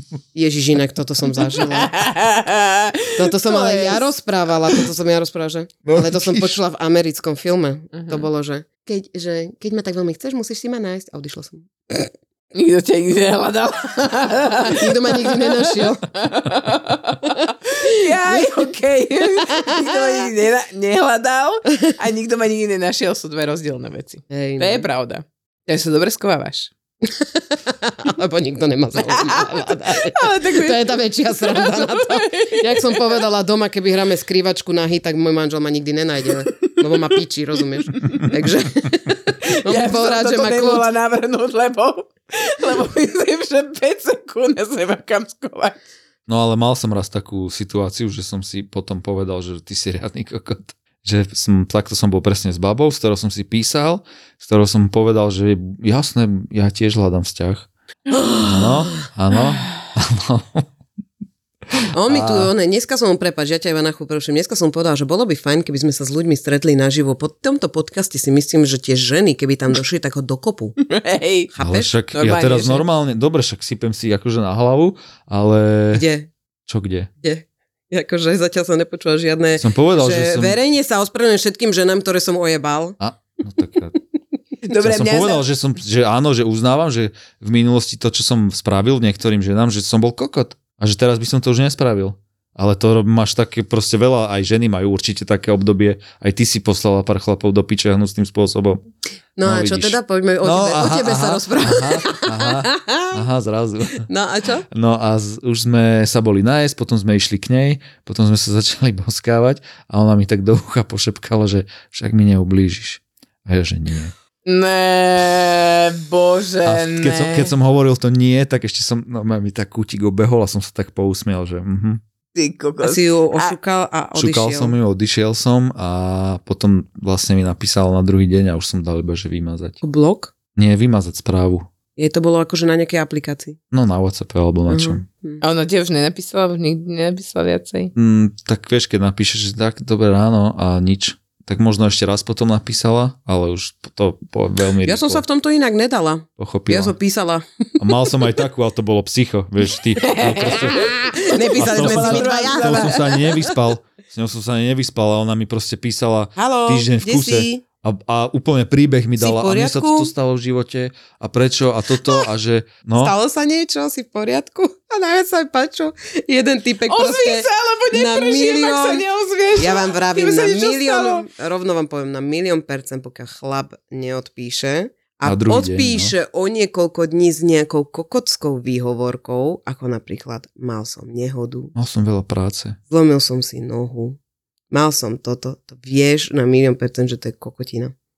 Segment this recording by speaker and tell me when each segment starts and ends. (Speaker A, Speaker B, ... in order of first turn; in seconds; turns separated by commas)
Speaker A: 0.3-1.9, Speaker B: 1.7-4.0, Speaker A: 3.1-12.1, Speaker B: 7.9-8.3, Speaker B: 12.5-26.7, Speaker A: 14.7-16.1, Speaker A: 19.5-19.9, Speaker A: 24.3-24.9, Speaker A: 27.1-40.9, Speaker B: 29.0-33.1, Speaker B: 39.5-45.8, Speaker C: 46.3-57.7, Speaker A: 58.1-58.9, Speaker C: 58.4-60.6, Speaker A: 61.9-70.8, Speaker C: 62.1-62.5, Speaker B: 70.9-71.5, Speaker A: 71.5-71.9, Speaker C: 71.6-76.0, Speaker B: 72.1-72.8, Speaker A: 75.9-76.3, Speaker C: 76.7-77.1, Speaker A: 77.2-83.0, Speaker C: 79.6-80.6, Speaker C: 83.0-83.9, Speaker B: 84.6-85.4, Speaker C: 84.8-98.8, Speaker A: 99.4-103.2, Speaker C: 99.4-104.1, Speaker A: 104.0-104.7, Speaker C: 104.7-114.1, Speaker B: 114.5-117.5, Speaker C: 116.6-122.0, Speaker B: 122.4-123.5, Speaker A: 122.8-124.7, Speaker C: 124.2-129.8, Speaker A: 129.8-130.3, Speaker C: 130.6-131.7, Speaker A: 132.0-133.6, Speaker C: 133.7-135.0, Speaker A: 134.7-135.4, Speaker B: 135.4-137.9, Speaker C: 137.9-145.2, Speaker A: 144.9-147.4, Speaker C: 146.4-146.9, Speaker C: 147.8-150.9, Speaker B: 150.0-153.2, Speaker A: 151.3-153.5, Speaker C: 151.6-163.1, Speaker A: 156.4-157.6, Speaker A: 159.2-160.1, Speaker A: 163.0-169.0, Speaker B: 166.9-171.2, Speaker A: 169.6-181.7, Speaker C: 175.2-176.1, Speaker C: 181.8-182.8, Speaker A: 182.9-184.2, Speaker A: 184.7-187.9